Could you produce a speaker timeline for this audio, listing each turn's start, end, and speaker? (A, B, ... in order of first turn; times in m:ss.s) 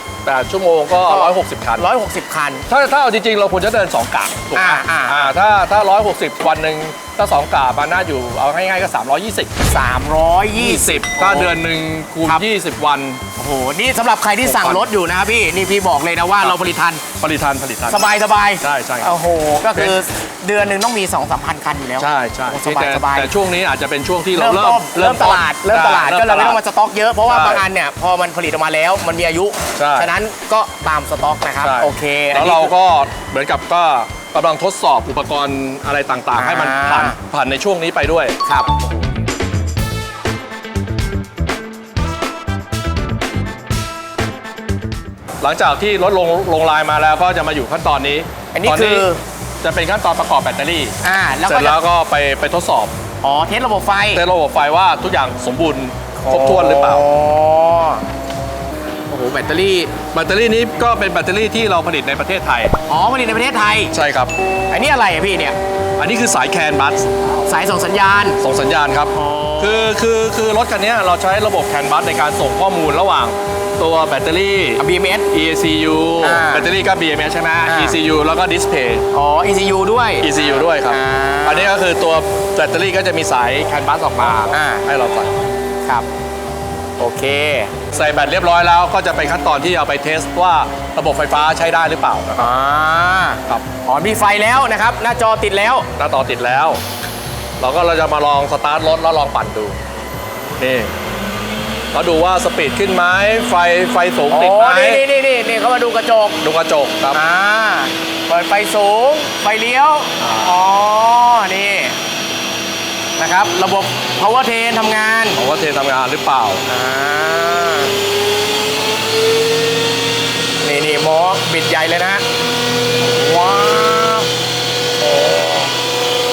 0:00.2-0:01.8 A
0:01.0-0:02.6 B
0:02.7-0:09.5 A
0:04.5-0:05.3 B
0:09.7-0:11.5 B
0:10.6-0:13.2 A
0:13.4-0:17.0 B
0:14.4-0:14.8 A
0:17.2-0:18.0 A
0:17.9-0:23.3 B
0:18.6-0:19.1 A
0:22.0-0:26.6 A
0:24.3-0:32.7 B
0:27.3-0:27.6 A
0:29.8-0:30.1 A
0:31.6-0:38.4 A
0:36.3-0:37.2 B
0:38.4-0:38.9 B
0:45.4-0:49.0 A
0:48.5-0:49.2 B
0:49.6-0:52.9 A
0:51.0-0:51.8 B
0:53.2-0:54.2 B
0:54.1-0:57.0 A
0:56.2-0:58.0 B
0:59.1-1:00.0 B
1:00.1-1:02.7 A
1:02.9-1:03.9 B
1:03.9-1:04.3 A
1:04.7-1:05.6 B
1:06.0-1:07.1 A
1:07.4-1:08.4 B
1:08.4-1:19.0 A
1:09.1-1:09.9 B
1:14.8-1:15.3 B
1:16.2-1:16.7 B
1:17.6-1:18.0 B
1:19.1-1:21.7 B
1:20.2-1:25.3 A
1:24.5-1:24.8 B
1:27.0-1:27.8 B
1:27.9-1:32.5 A
1:32.4-1:35.9 B
1:36.0-1:36.8 A
1:37.6-1:39.8 A
1:40.6-1:40.9 A
1:41.9-1:45.0 A
1:44.3-1:46.4 B
1:46.4-1:47.2 A
1:47.1-1:52.0 B
1:50.2-1:50.5 A
1:53.2-1:55.4 B
1:55.4-1:56.6 A
1:56.6-1:58.0 B
2:00.6-2:02.2 B
2:03.0-2:04.3 B
2:05.0-2:05.7 B